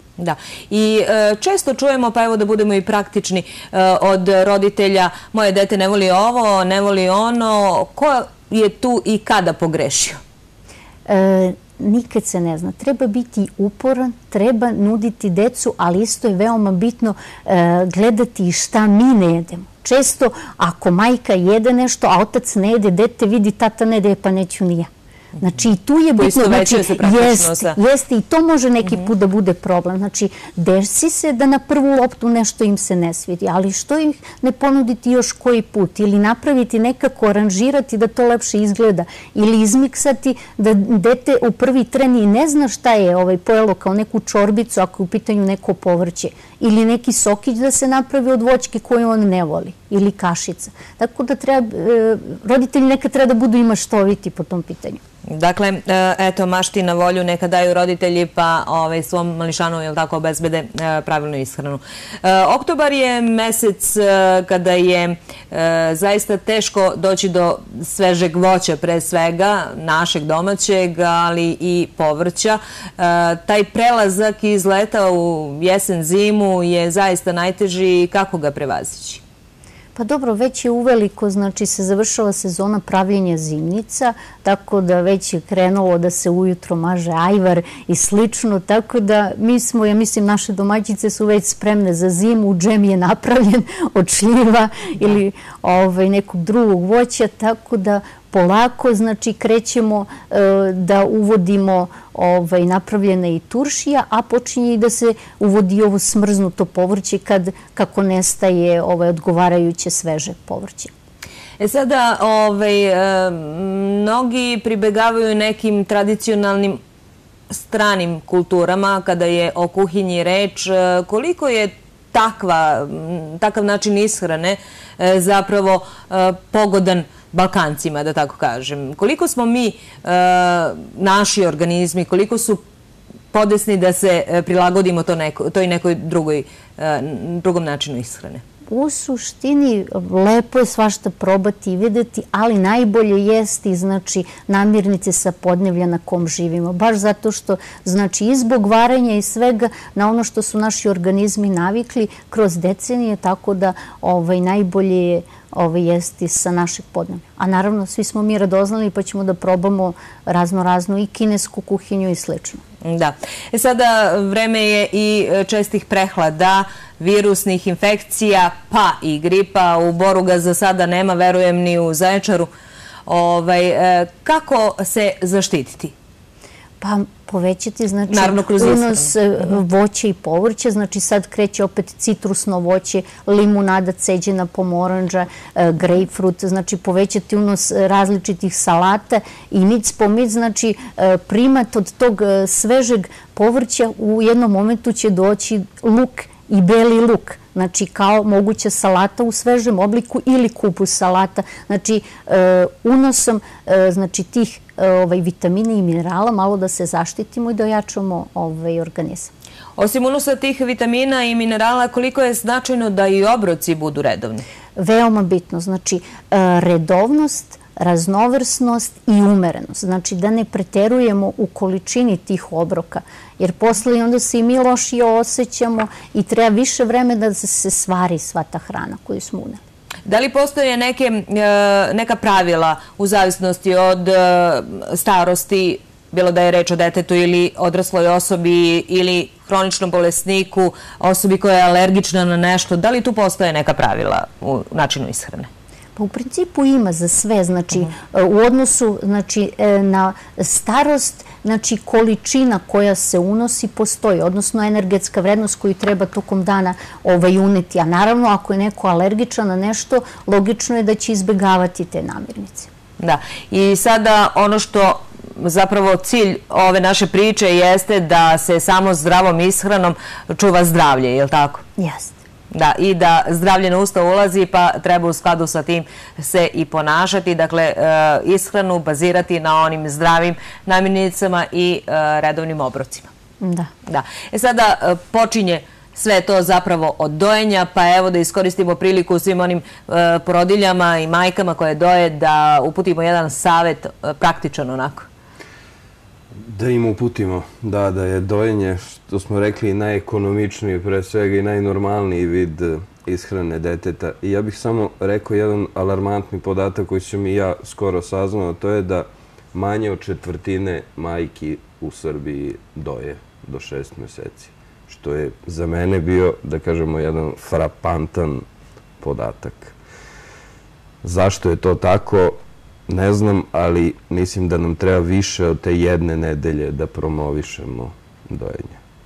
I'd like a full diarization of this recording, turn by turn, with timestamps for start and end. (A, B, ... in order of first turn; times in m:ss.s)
0:00.2-0:10.2 A
0:11.1-0:24.9 B
0:25.4-0:55.0 B
0:26.2-0:27.8 A
0:55.3-1:19.2 A
1:20.0-1:50.9 B
1:51.6-1:56.8 A
1:57.5-2:12.6 A
2:13.3-2:18.4 A
2:18.7-2:42.6 B
2:42.8-2:52.5 A
2:53.1-2:55.9 A
2:56.8-3:29.3 B
2:58.1-2:59.1 A
3:29.8-3:34.4 A
3:34.8-3:49.6 B
3:50.1-4:05.5 A
4:06.0-4:22.7 B
4:23.0-4:31.6 A
4:31.8-4:32.2 B
4:32.5-4:43.1 A
4:43.4-4:43.7 B
4:43.9-4:55.1 A
4:56.4-5:18.4 C
5:19.0-5:19.8 C
5:21.0-5:28.8 C